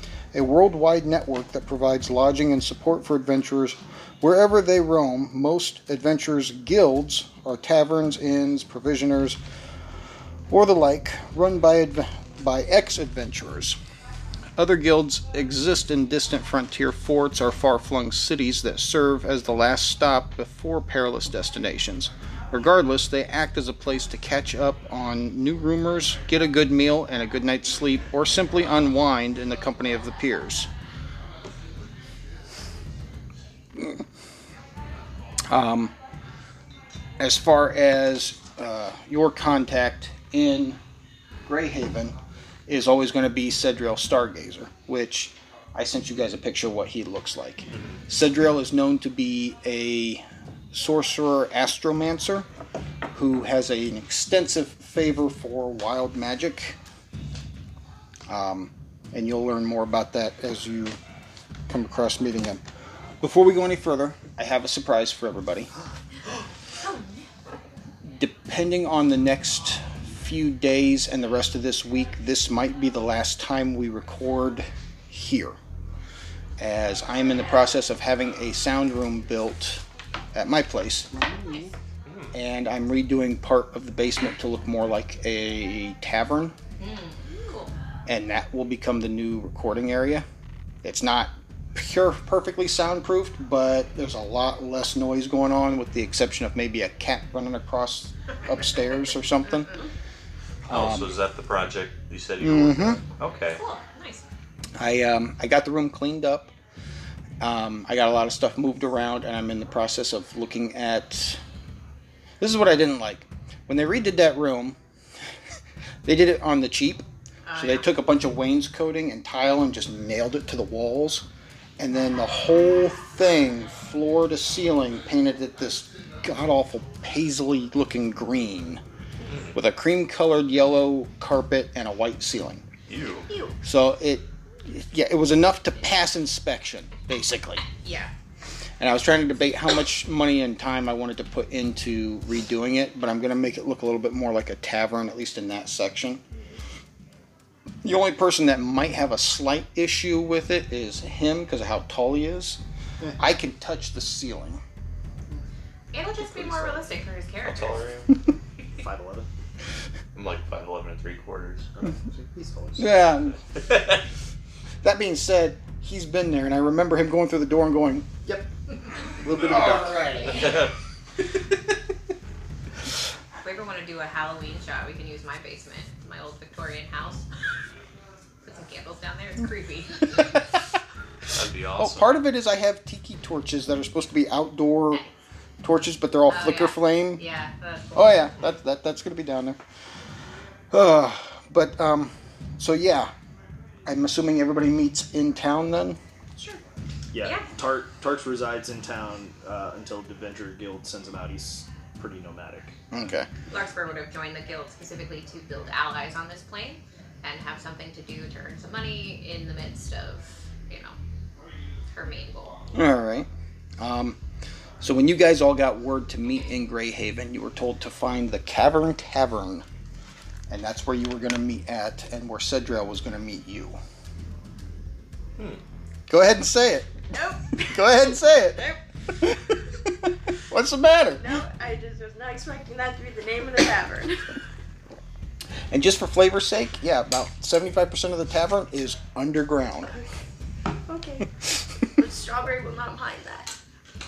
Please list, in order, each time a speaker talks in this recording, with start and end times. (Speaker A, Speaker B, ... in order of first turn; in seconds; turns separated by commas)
Speaker A: 0.3-9.4, Speaker A: 10.5-13.8, Speaker A: 14.6-30.7, Speaker A: 33.7-34.0, Speaker A: 35.5-35.9, Speaker A: 37.2-40.8, Speaker A: 41.5-42.1, Speaker A: 42.7-52.5, Speaker B: 47.7-48.0, Speaker A: 53.1-56.8, Speaker A: 58.3-61.0, Speaker A: 61.7-62.6, Speaker A: 63.2-65.7, Speaker C: 66.8-67.1, Speaker A: 68.0-75.6, Speaker A: 76.6-81.2, Speaker C: 81.4-81.7, Speaker B: 82.1-82.3, Speaker A: 82.3-86.6, Speaker C: 86.8-87.7, Speaker A: 88.1-90.2, Speaker A: 90.8-99.7, Speaker A: 100.7-101.1, Speaker B: 100.7-103.6, Speaker A: 102.4-103.0, Speaker C: 103.5-104.2, Speaker A: 104.8-106.5, Speaker A: 107.4-111.4, Speaker A: 112.4-114.8, Speaker A: 116.0-121.2, Speaker C: 117.5-117.9, Speaker A: 121.8-128.8, Speaker A: 129.5-132.6, Speaker B: 132.9-133.3, Speaker C: 133.3-133.5, Speaker A: 133.6-137.6, Speaker C: 137.8-138.1, Speaker A: 138.8-146.2, Speaker A: 147.8-152.6, Speaker A: 153.2-154.6, Speaker C: 155.9-157.8, Speaker D: 156.4-156.8, Speaker B: 157.4-158.1, Speaker D: 158.8-159.3, Speaker B: 160.1-161.7, Speaker D: 161.7-163.0, Speaker A: 162.8-163.4, Speaker B: 163.6-164.0, Speaker A: 164.8-168.1, Speaker D: 169.2-170.3, Speaker A: 169.5-169.9, Speaker B: 170.3-170.7, Speaker C: 173.4-177.3, Speaker C: 178.4-180.3, Speaker B: 181.3-182.2, Speaker A: 181.8-185.0, Speaker A: 185.6-187.2, Speaker C: 186.3-188.4, Speaker A: 187.9-189.6, Speaker A: 190.7-193.1, Speaker A: 193.9-196.0, Speaker D: 197.1-202.7, Speaker C: 197.2-197.5, Speaker A: 202.9-203.3, Speaker C: 203.5-210.9, Speaker C: 211.9-212.6, Speaker A: 212.7-213.3, Speaker A: 213.8-214.2, Speaker A: 214.8-219.6, Speaker A: 220.5-223.8, Speaker A: 226.1-226.9, Speaker E: 227.1-228.1, Speaker A: 227.7-229.4, Speaker A: 230.5-231.4, Speaker E: 231.2-234.3, Speaker A: 235.7-239.9, Speaker E: 240.9-241.4, Speaker E: 241.9-243.6